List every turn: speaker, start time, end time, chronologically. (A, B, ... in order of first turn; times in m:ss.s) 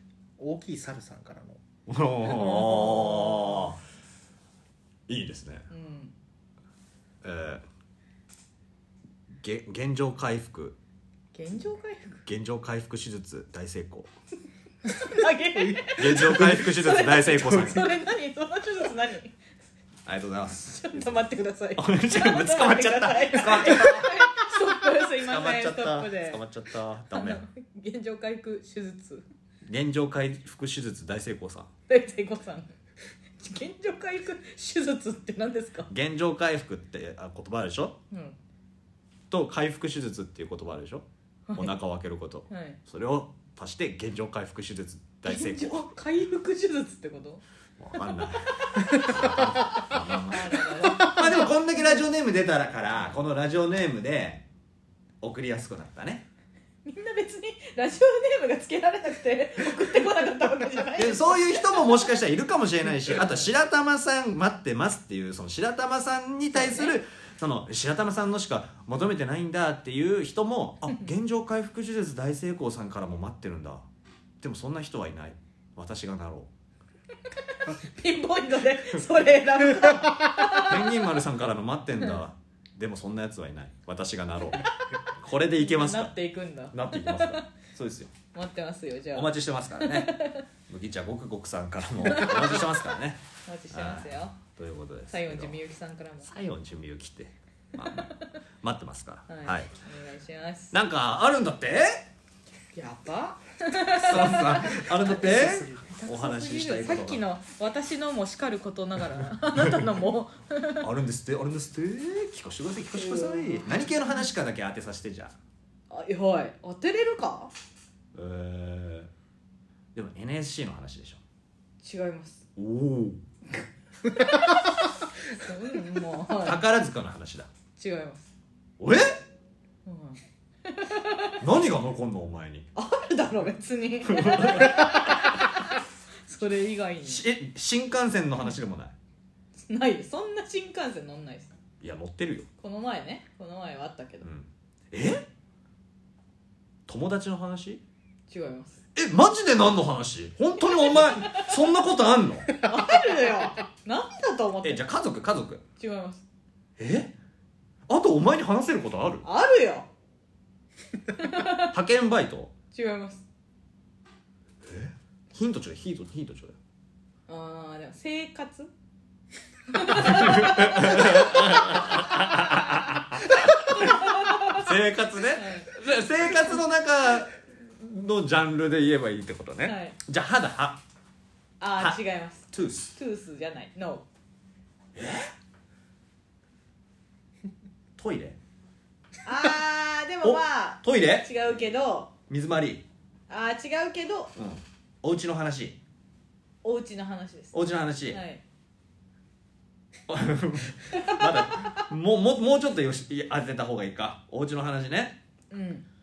0:00.4-0:01.6 A
0:01.9-0:03.8 B
0:02.2-0:03.7 C
0:05.1-0:05.7 B
0:05.7-0:06.1 C
0:07.2-0:07.6 B
0:09.4-0:10.8 B
0:11.3-0:12.2 C
0:12.2-0:14.1 B
0:14.8-0:19.3 C
0:15.5-0:16.7 A
0:15.9-0:17.9 B
0:20.0-0:24.3 B
0:20.7-0:26.4 C
0:25.2-0:27.4 B
0:27.1-0:29.2 C
0:29.6-0:31.7 B
0:31.9-0:32.7 C
0:33.4-0:35.9 C
0:35.9-0:38.0 B
0:38.1-0:38.4 C
0:39.3-0:45.9 B
0:42.5-0:42.8 C
0:45.2-0:47.4 C
0:47.8-0:54.4 B
0:48.2-0:52.0 C
0:55.2-0:56.2 B
0:56.8-1:02.2 C
1:01.0-1:13.8 B
1:03.0-1:03.5 C
1:06.5-1:07.0 C
1:14.4-1:16.5 B
1:17.4-1:20.8 C
1:20.6-1:26.1 B
1:24.6-1:25.0 C
1:25.6-1:27.5 C
1:26.7-1:28.1 B
1:28.3-1:30.4 C
1:29.1-1:30.1 B
1:30.7-1:35.6 B
1:32.0-1:32.8 C
1:33.4-1:34.4 C
1:35.1-1:36.3 C
1:36.2-1:39.7 B
1:37.8-1:38.4 C
1:39.3-1:40.8 C
1:40.7-1:42.0 B
1:42.7-1:50.9 C
1:43.9-1:47.2 B
1:49.6-1:49.8 B
1:50.8-1:55.4 B
1:52.9-1:53.7 C
1:55.9-1:57.5 C
1:58.1-1:59.1 B
1:59.9-2:01.2 B
2:01.8-2:02.4 C
2:02.6-2:03.2 B
2:03.6-2:06.6 C
2:06.4-2:07.5 B
2:07.8-2:08.3 C
2:08.8-2:09.2 B
2:09.8-2:11.4 C
2:11.4-2:12.7 B
2:12.7-2:17.2 C
2:14.0-2:15.3 B
2:17.0-2:18.9 B
2:19.6-2:21.5 C
2:21.8-2:22.5 B
2:22.6-2:24.3 C
2:24.2-2:25.3 B
2:26.9-2:27.8 B
2:28.3-2:28.8 C
2:28.9-2:32.5 B
2:30.6-2:31.5 C
2:32.6-2:34.9 C
2:34.6-2:35.6 B
2:35.8-2:36.2 C
2:36.8-2:37.1 B
2:37.9-2:39.2 B
2:39.2-2:39.9 C
2:41.1-2:41.7 C
2:41.7-2:42.5 B
2:42.7-2:43.2 C
2:44.6-2:46.6 B
2:47.3-2:48.7 C
2:49.7-2:51.9 C
2:49.9-3:00.8 B
2:53.6-2:54.7 C
2:55.3-2:55.7 C
2:59.6-3:00.0 C
3:01.6-3:04.0 C
3:02.5-3:02.9 B
3:04.9-3:05.3 B
3:08.0-3:08.4 B
3:09.2-3:12.1 C
3:10.2-3:11.3 B
3:12.3-3:12.8 B
3:13.3-3:14.3 C
3:14.4-3:15.8 B
3:16.6-3:18.4 C
3:17.5-3:18.2 B
3:20.1-3:25.2 B
3:20.9-3:21.9 C
3:25.5-3:25.8 C